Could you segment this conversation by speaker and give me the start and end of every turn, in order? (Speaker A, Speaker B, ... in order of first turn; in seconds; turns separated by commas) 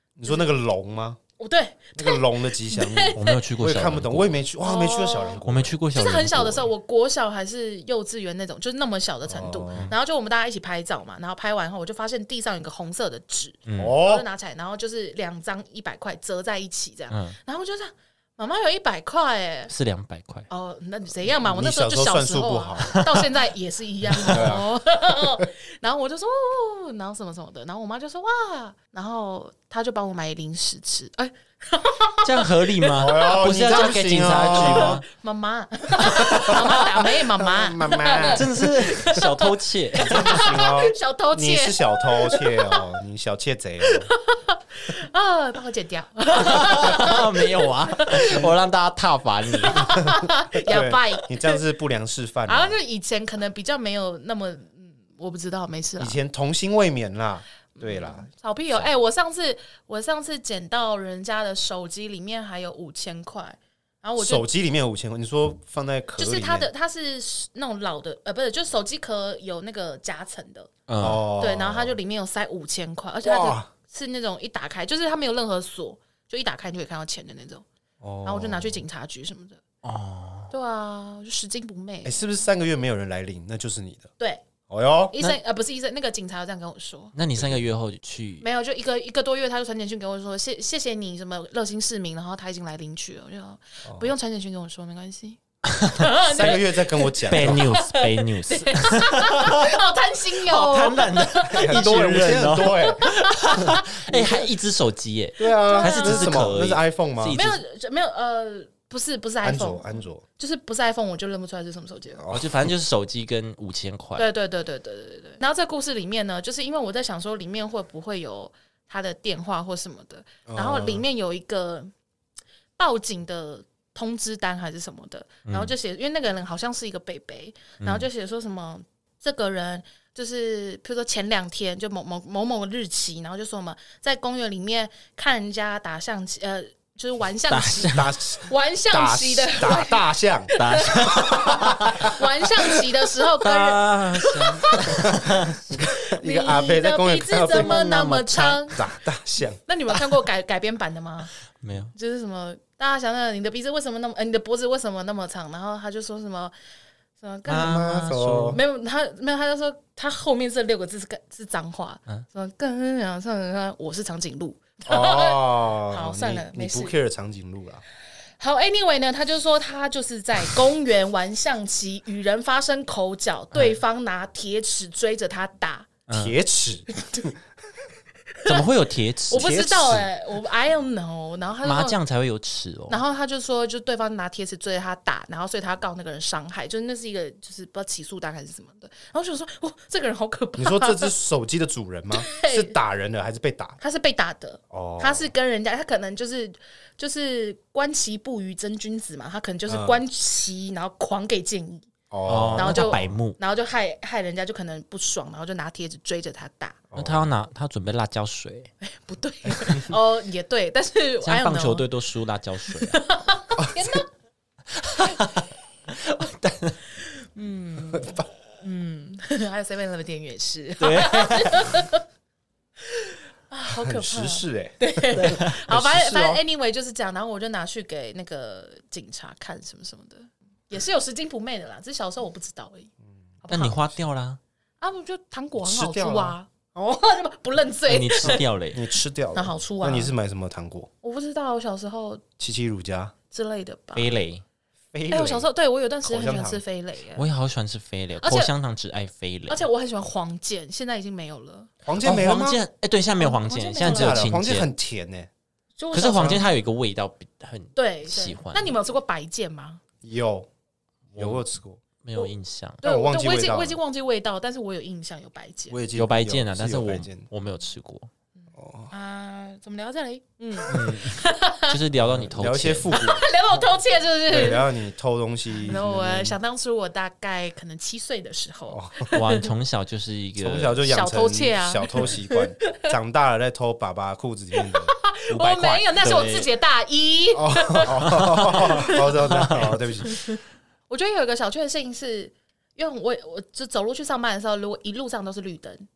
Speaker A: 0.2-1.2, Speaker B: 1.4-3.4, Speaker A: 1.9-5.8, Speaker C: 3.1-4.4, Speaker B: 4.6-5.4, Speaker C: 5.4-6.7, Speaker B: 5.9-19.7, Speaker A: 9.3-9.9, Speaker C: 13.7-14.0, Speaker A: 13.8-14.2, Speaker C: 17.1-17.4, Speaker C: 19.7-20.5, Speaker B: 20.5-42.9, Speaker A: 21.2-23.0, Speaker C: 22.9-23.3, Speaker C: 24.1-24.6, Speaker A: 24.2-24.7, Speaker C: 32.2-35.0, Speaker A: 32.9-35.0, Speaker A: 36.0-38.7, Speaker C: 36.1-36.7, Speaker C: 38.3-40.5, Speaker A: 40.0-44.1, Speaker B: 43.9-48.4, Speaker C: 46.3-50.1, Speaker A: 48.2-48.6, Speaker B: 49.6-51.6, Speaker A: 50.7-52.8, Speaker B: 52.5-56.2, Speaker A: 56.0-58.9, Speaker B: 57.8-64.5, Speaker A: 64.2-66.7, Speaker B: 66.2-70.7, Speaker C: 70.9-71.2, Speaker A: 71.0-72.0, Speaker B: 71.4-77.6, Speaker A: 73.2-73.7, Speaker A: 78.0-78.8, Speaker B: 78.2-79.6, Speaker C: 79.8-80.5, Speaker B: 80.5-82.2, Speaker A: 82.0-84.1, Speaker A: 84.7-85.1, Speaker B: 85.1-87.1, Speaker C: 87.1-88.5, Speaker A: 87.4-87.6, Speaker B: 88.4-101.8, Speaker A: 93.8-94.1, Speaker C: 95.6-96.6, Speaker A: 96.2-97.7, Speaker C: 97.3-99.8, Speaker C: 100.4-107.6, Speaker A: 101.5-104.5, Speaker B: 102.8-103.9, Speaker A: 105.4-107.4, Speaker B: 105.6-106.3, Speaker B: 107.3-112.2, Speaker A: 109.4-110.2, Speaker A: 112.2-112.7, Speaker C: 112.3-114.3, Speaker B: 114.2-121.9, Speaker A: 120.5-121.0, Speaker B: 122.8-145.2, Speaker C: 125.5-125.7, Speaker C: 127.8-128.1, Speaker C: 137.5-138.1, Speaker A: 137.8-140.5, Speaker C: 140.6-142.2, Speaker A: 141.1-142.1, Speaker C: 143.4-145.7, Speaker A: 144.7-147.8, Speaker B: 145.8-148.8, Speaker C: 147.4-148.8, Speaker A: 148.7-149.6, Speaker B: 149.7-151.3, Speaker C: 151.6-151.9, Speaker B: 151.9-156.5, Speaker B: 157.2-158.0, Speaker C: 157.5-158.6, Speaker A: 157.5-158.6, Speaker B: 158.5-166.9, Speaker A: 164.9-167.8, Speaker B: 168.4-175.9, Speaker C: 176.1-176.4, Speaker A: 176.1-177.3, Speaker C: 178.4-180.0, Speaker B: 179.3-182.0, Speaker A: 179.3-180.1, Speaker C: 181.6-183.0, Speaker B: 182.9-191.1, Speaker A: 190.6-193.8, Speaker B: 192.1-192.7, Speaker B: 193.8-201.9, Speaker A: 194.7-195.3, Speaker A: 199.7-200.0, Speaker A: 202.1-203.1, Speaker C: 202.2-203.4, Speaker B: 202.5-206.8, Speaker A: 206.9-207.3, Speaker C: 206.9-208.7, Speaker B: 208.8-211.8, Speaker C: 211.2-213.0, Speaker B: 212.8-214.1, Speaker A: 213.6-213.9, Speaker C: 214.7-216.8, Speaker B: 217.3-222.0, Speaker C: 220.8-221.7, Speaker B: 222.8-232.9, Speaker A: 223.7-226.4, Speaker C: 225.1-225.6, Speaker B: 233.4-233.8, Speaker C: 233.5-234.4, Speaker B: 234.8-238.4, Speaker A: 235.6-236.4, Speaker C: 237.9-238.8, Speaker A: 238.2-240.9, Speaker B: 239.3-240.1, Speaker B: 241.0-242.2, Speaker A: 242.4-243.1, Speaker B: 243.3-244.2, Speaker C: 243.9-244.4, Speaker A: 244.9-245.5, Speaker B: 245.1-247.3, Speaker A: 246.0-246.6, Speaker C: 247.2-249.7, Speaker B: 248.2-248.5, Speaker B: 249.5-251.7, Speaker A: 251.8-252.6, Speaker C: 252.0-254.7, Speaker B: 253.2-254.2, Speaker A: 253.8-255.3, Speaker B: 255.8-256.5, Speaker C: 255.9-258.8, Speaker A: 256.1-256.4, Speaker B: 257.8-259.8, Speaker A: 260.0-260.5, Speaker C: 261.1-261.4, Speaker A: 261.2-261.8, Speaker C: 262.0-262.8, Speaker B: 262.8-265.8, Speaker A: 262.8-263.8, Speaker A: 265.7-267.3, Speaker C: 265.9-268.1, Speaker A: 268.5-268.9, Speaker B: 268.9-271.8, Speaker C: 270.7-273.0, Speaker A: 271.9-273.2, Speaker B: 272.9-274.7, Speaker A: 274.3-276.4, Speaker B: 275.5-279.5, Speaker A: 278.7-279.1, Speaker C: 279.1-280.8, Speaker A: 280.4-284.9, Speaker B: 280.9-282.9, Speaker B: 284.6-289.1, Speaker C: 285.3-286.5, Speaker A: 287.3-290.2, Speaker C: 288.0-289.8, Speaker B: 290.0-295.8